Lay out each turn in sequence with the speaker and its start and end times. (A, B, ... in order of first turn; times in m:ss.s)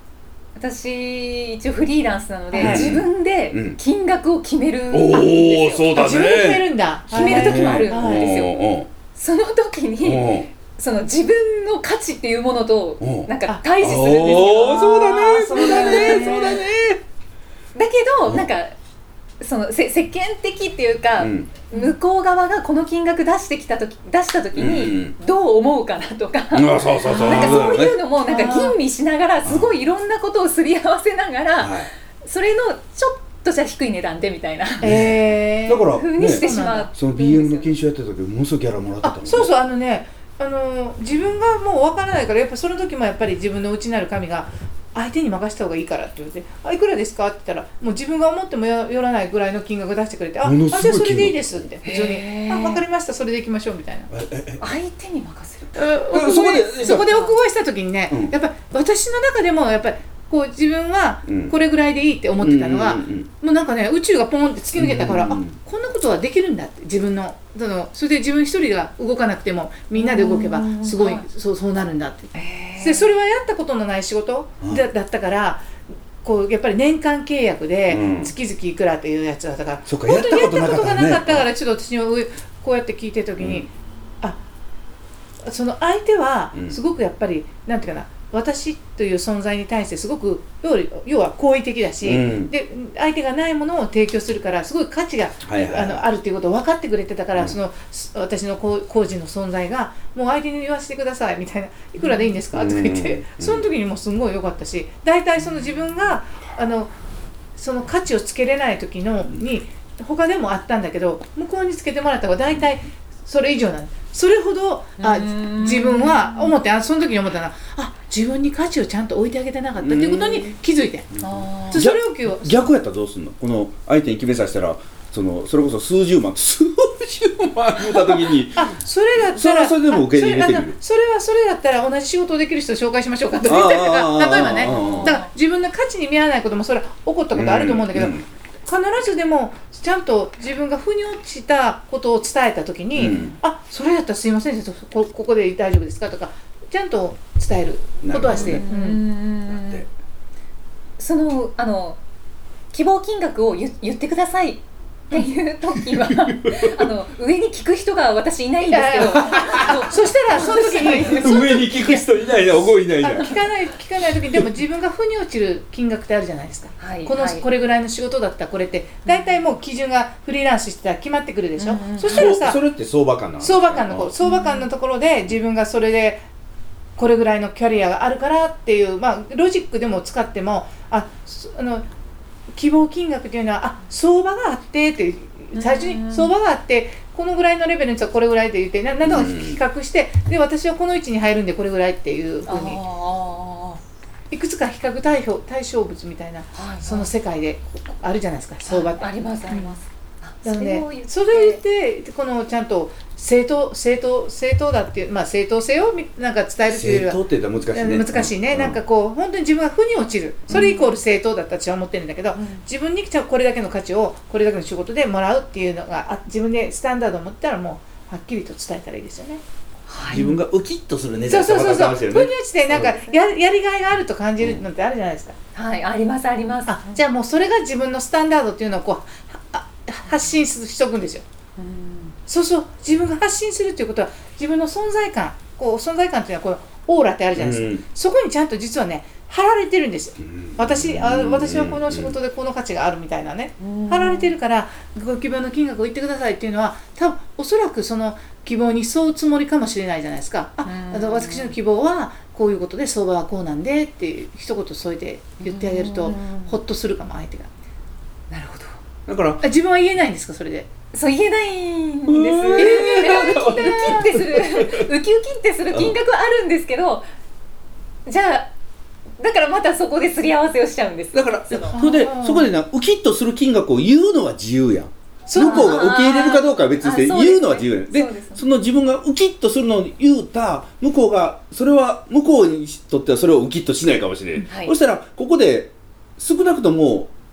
0:00.6-0:05.9 A
0:02.5-0:02.9 B
0:02.6-0:03.8 C
0:04.9-0:08.9 C
0:05.9-0:08.3 B
0:07.1-0:08.6 A
0:09.1-0:16.5 A
0:10.0-0:10.5 C
0:13.0-0:17.0 C
0:13.5-0:16.6 B
0:17.7-0:18.7 A
0:19.4-0:34.9 A
0:21.2-0:21.5 C
0:24.6-0:25.2 C
0:26.5-0:28.0 C
0:27.1-0:27.6 B
0:28.2-0:28.8 B
0:29.4-0:29.7 C
0:31.6-0:31.9 C
0:34.8-0:36.9 B
0:34.8-0:39.5 C
0:35.9-0:37.7 A
0:39.0-0:54.1 B
0:50.4-0:51.6 C
0:51.8-0:52.8 A
0:54.1-0:54.6 C
0:54.6-0:55.8 A
0:55.7-1:15.7 B
0:56.1-0:57.1 C
0:56.8-0:57.3 A
1:01.3-1:01.5 C
1:02.4-1:03.3 C
1:04.8-1:05.6 C
1:09.9-1:11.2 A
1:12.3-1:13.1 A
1:16.2-1:23.7 B
1:17.9-1:18.3 C
1:19.9-1:21.5 C
1:23.4-1:23.6 C
1:25.4-1:46.9 B
1:32.0-1:32.5 C
1:35.4-1:36.0 C
1:42.5-1:43.6 C
1:47.6-2:01.1 B
1:55.0-1:56.5 A
1:59.8-2:00.5 C
2:01.2-2:08.7 C
2:01.2-2:01.8 A
2:01.7-2:02.6 B
2:08.5-2:29.0 B
2:09.3-2:10.8 C
2:13.4-2:15.2 C
2:14.3-2:15.3 A
2:17.3-2:18.2 C
2:22.9-2:23.3 C
2:28.0-2:28.6 C
2:28.3-2:29.8 A
2:29.5-2:29.9 C
2:31.0-2:32.0 A
2:32.7-2:41.6 A
2:35.8-2:36.9 C
2:38.6-2:42.1 B
2:39.3-2:39.7 C
2:41.1-2:43.4 C
2:43.0-2:52.6 B
2:46.8-2:47.4 A
2:51.6-2:52.3 A
2:52.0-2:54.1 C
2:53.4-2:56.2 B
2:54.2-2:54.6 A
2:57.0-3:01.8 B
3:02.5-3:12.8 B
3:05.5-3:06.3 A
3:09.0-3:09.6 C
3:12.4-3:13.8 A
3:14.3-3:19.7 B
3:16.5-3:17.1 A
3:18.6-3:21.6 A
3:20.4-3:27.2 B
3:26.7-3:28.8 C
3:27.7-3:39.4 B
3:30.5-3:30.9 A
3:32.4-3:32.6 A
3:39.9-3:40.2 A
3:40.1-3:40.4 B
3:40.1-3:42.9 C
3:41.3-3:45.3 B
3:45.5-3:47.0 A
3:46.7-3:51.2 B
3:51.6-3:52.1 A
3:52.3-4:17.5 B
3:57.4-3:57.8 C
4:00.2-4:02.2 C
4:03.6-4:04.4 A
4:10.6-4:11.5 A
4:15.4-4:16.6 A
4:18.3-4:18.8 A
4:19.1-4:19.4 C
4:19.4-4:20.7 B
4:20.9-4:27.0 A
4:22.1-4:24.9 C
4:22.6-4:24.0 B
4:28.0-4:28.5 A
4:29.2-4:31.8 A
4:31.1-4:47.1 C
4:31.7-4:32.5 B
4:35.3-4:35.8 B
4:35.3-4:38.4 A
4:44.5-4:44.7 A